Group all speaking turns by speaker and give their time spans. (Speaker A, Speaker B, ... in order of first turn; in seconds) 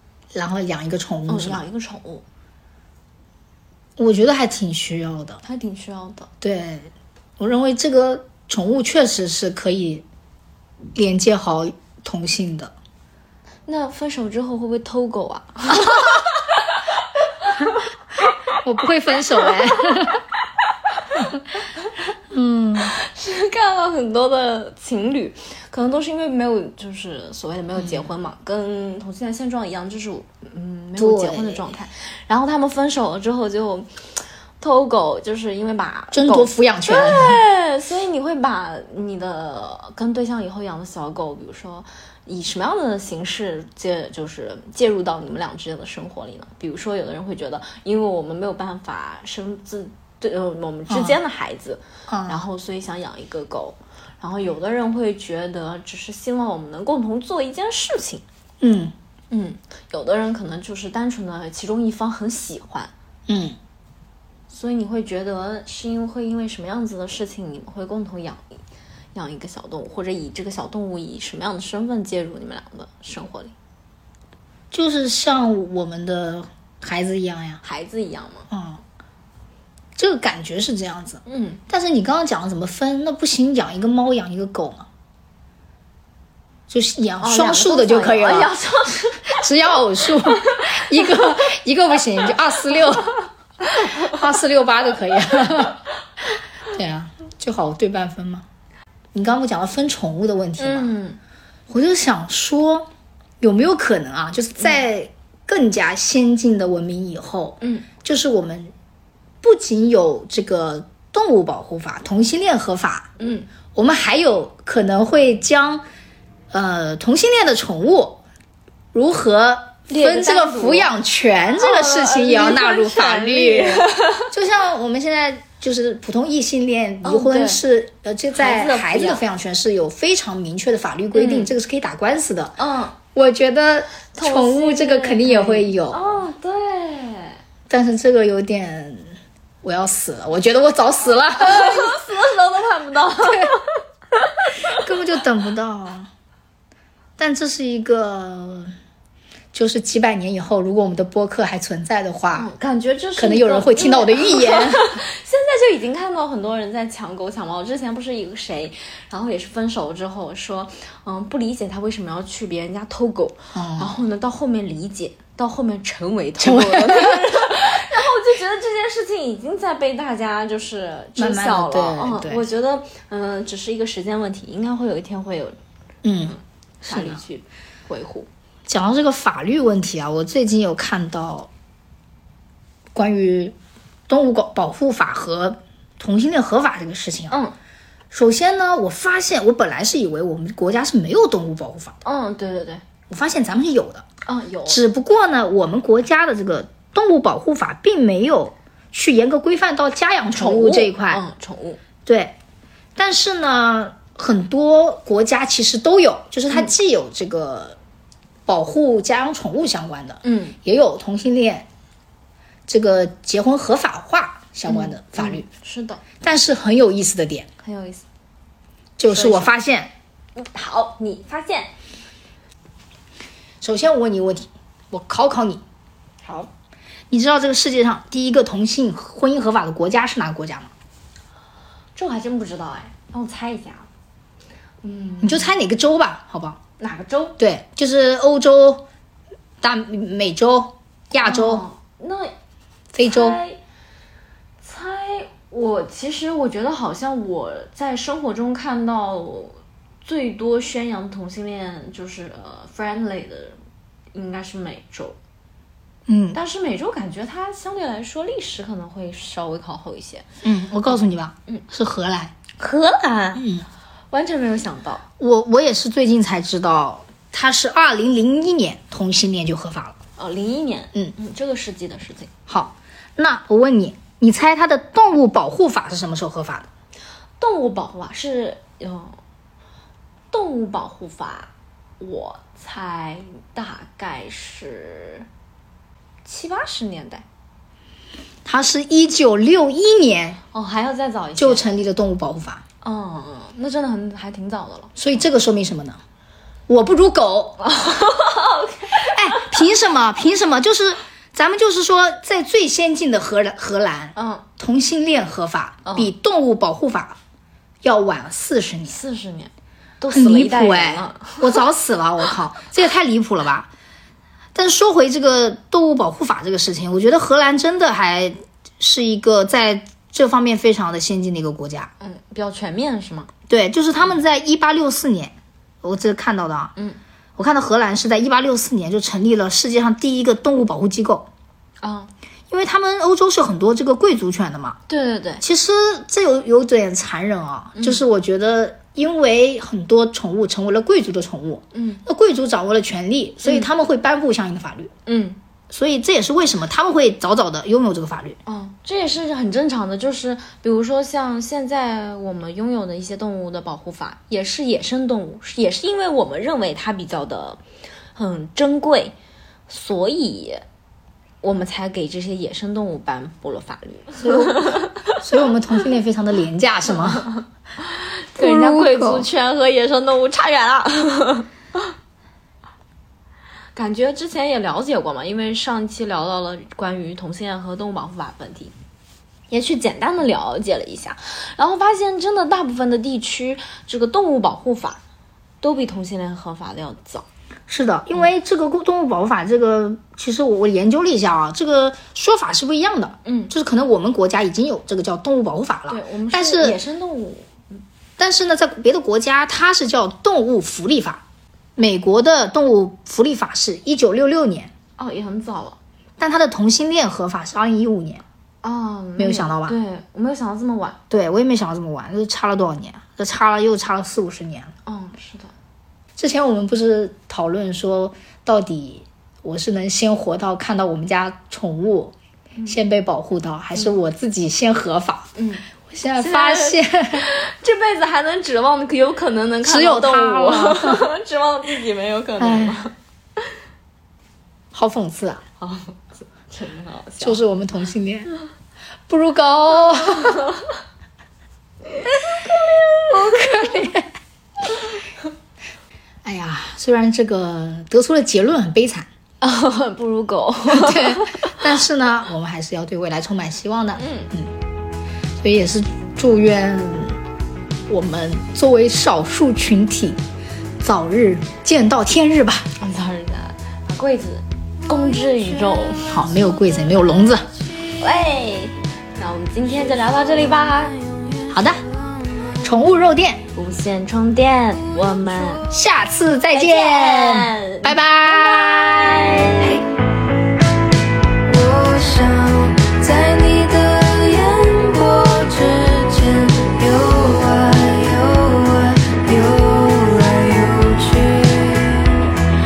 Speaker A: 0.3-1.6, 4.0-5.4, 6.4-10.1, 10.9-12.7, 18.6-20.2, 22.3-22.9, 27.8-28.1, 31.0-31.6, 36.1-37.4, 50.9-51.2, 52.1-52.4, 58.6-58.9, 63.3-63.6, 74.7-77.6, 78.5-78.8, 80.0-84.9, 86.7-88.5, 89.2-93.1, 93.8-95.8, 96.7-98.5, 99.1-101.0, 101.7-108.7, 109.4-113.1, 113.7-115.8, 116.5-118.2, 118.9-132.6, 133.1-136.1, 137.7-142.0, 143.2-143.5, 144.7-146.1, 147.2-148.7, 149.5-152.5, 153.2-154.9, 163.5-163.9, 166.4-167.6, 171.2-172.4, 176.0-177.2, 178.7-181.5, 182.9-183.6, 184.1-187.4, 188.1-192.0, 193.1-194.1, 194.7-201.2, 202.1-202.4, 202.9-207.8, 208.5-211.7, 212.7-215.5, 216.2-217.5, 219.0-219.9, 223.6-225.6, 227.1-230.7, 235.2-236.6, 237.4-238.9, 239.6-241.7, 242.9-243.4, 256.1-256.4, 260.4-262.4, 263.4-263.6, 265.2-269.9, 272.5-276.7, 288.4-290.4, 291.4-292.6, 294.9-296.0, 296.7-297.6, 298.9-307.2, 307.8-309.0, 310.1-313.7, 314.6-321.9, 323.5-326.7, 327.4-331.3, 332.5-334.8, 335.4-344.9, 345.7-348.4, 364.2-367.3, 368.4-369.3, 387.7-396.8, 398.2-401.2, 401.8-404.7, 406.2-408.2, 409.2-409.8, 411.1-414.7, 416.2-422.1, 422.6-425.3, 425.9-427.3, 429.6-431.1, 432.4-432.8, 434.7-435.4, 437.2-438.3, 439.1-440.5, 442.4-444.1, 446.2-449.1, 450.7-454.5, 455.4-457.2, 457.9-460.2, 460.8-462.7, 466.1-467.5, 471.5-471.8, 472.6-473.4, 475.7-479.3
Speaker B: 1.3-2.2, 5.4-6.3, 13.7-18.3, 19.3-20.1, 22.8-58.2, 59.3-62.9, 64.5-68.6, 69.1-73.5, 77.6-78.5, 81.2-81.6, 87.2-89.4, 90.0-91.3, 93.7-94.1, 100.6-101.2, 107.6-107.9, 113.2-113.5, 119.9-120.9, 121.5-124.3, 127.0-127.6, 128.3-129.2, 131.1-131.5, 132.6-133.0, 134.1-137.4, 141.3-144.8, 152.3-175.6, 176.3-178.3, 192.0-192.8, 194.2-194.8, 200.3-201.8, 210.2-210.6, 214.7-216.0, 217.6-218.0, 219.1-219.6, 220.4-221.7, 226.2-226.5, 231.9-233.9, 234.8-235.5, 236.8-237.4, 241.2-242.3, 243.0-243.6, 244.6-253.6, 254.1-255.2, 256.3-260.2, 262.6-263.4, 264.1-265.0, 270.2-272.3, 277.4-279.2, 280.3-285.2, 286.2-287.2, 290.5-291.6, 292.8-294.9, 297.6-299.7, 304.1-304.4, 305.9-306.1, 308.9-311.6, 322.0-323.3, 331.8-332.1, 334.9-335.4, 337.7-338.0, 341.7-342.0, 345.1-345.4, 348.4-357.6, 358.1-359.1, 359.7-360.6, 361.4-365.2, 367.8-371.5, 373.7-378.7, 379.5-385.0, 385.6-387.2, 393.2-393.5, 395.9-397.8, 405.0-405.8, 408.6-411.0, 414.9-415.5, 425.4-425.6, 426.2-433.4, 435.6-437.4, 442.0-443.6, 449.4-451.6, 454.0-454.3, 462.8-466.2, 467.9-471.1, 473.6-475.7, 476.5-479.9, 481.5-491.9